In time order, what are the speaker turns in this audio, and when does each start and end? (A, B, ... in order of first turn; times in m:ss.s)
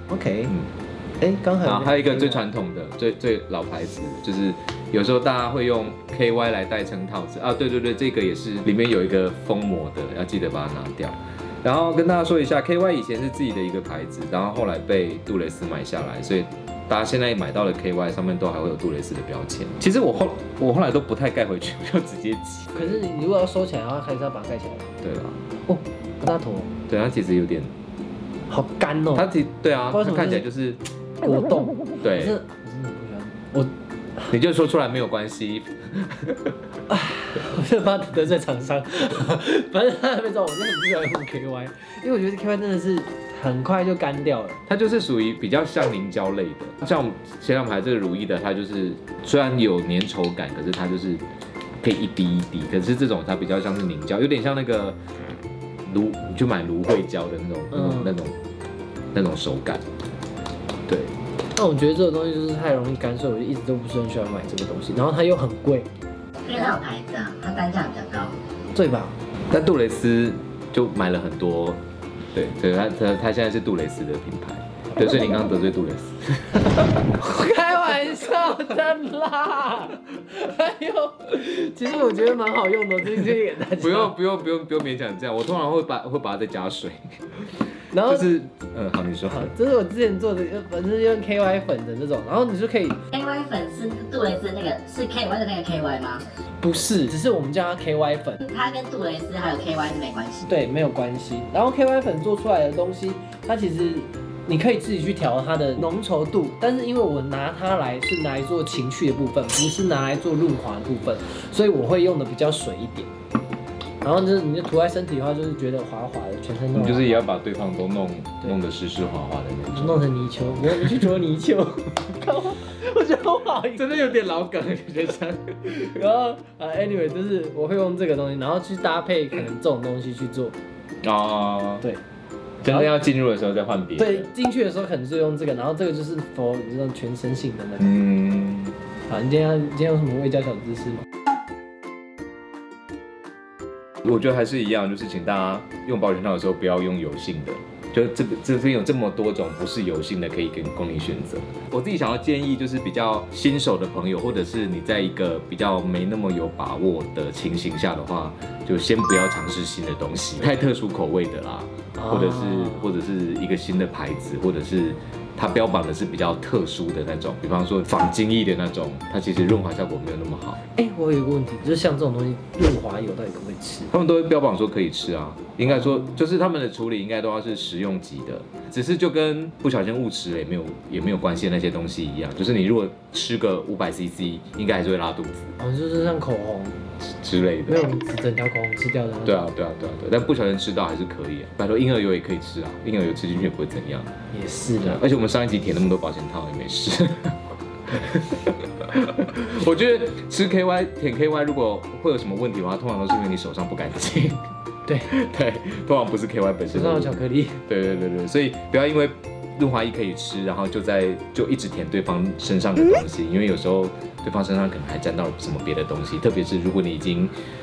0:00.1-0:00.5 A
0:01.2-0:02.4 A
0:01.6-0:23.0 B
0:22.7-0:24.9 A
0:25.0-0:25.4 B
0:25.7-0:26.7 A
0:26.9-0:27.7 B
0:28.5-0:29.3 A
0:29.1-0:30.8 B
0:29.9-0:30.4 A
0:31.2-0:33.7 A
0:32.0-0:32.4 B
0:34.2-0:36.6 B
0:36.9-0:44.6 A
0:44.7-0:51.2 B
0:51.8-0:55.0 B
0:55.8-0:58.3 B
0:57.7-0:58.1 A
0:59.1-0:59.8 B
1:01.5-1:05.9 A
1:06.4-1:08.4 C
1:08.7-1:09.2 A
1:09.5-1:11.8 B
1:12.3-1:16.7 B
1:17.0-1:24.1 A
1:23.8-1:29.5 B
1:27.9-1:28.3 A
1:29.3-1:33.0 A
1:33.1-1:36.3 C
1:36.6-1:38.4 A
1:38.4-1:40.5 C
1:40.5-1:53.1 A
1:54.0-1:57.2 A
1:56.7-2:01.2 B
1:59.7-2:04.2 A
2:03.7-2:06.0 B
2:05.8-2:10.6 A
2:11.0-2:11.8 B
2:12.6-2:14.3 B
2:14.0-2:17.9 A
2:17.8-2:18.8 B
2:19.1-2:21.0 A
2:24.0-2:50.6 B
2:42.0-2:42.8 A
2:50.7-2:53.9 A
2:53.9-3:05.5 B
3:05.6-3:06.8 A
3:07.1-3:07.8 B
3:07.7-3:09.4 A
3:09.2-3:14.1 B
3:14.3-3:15.0 A
3:14.8-3:24.4 B
3:24.9-3:25.1 A
3:25.1-3:37.3 B
3:26.7-3:27.6 A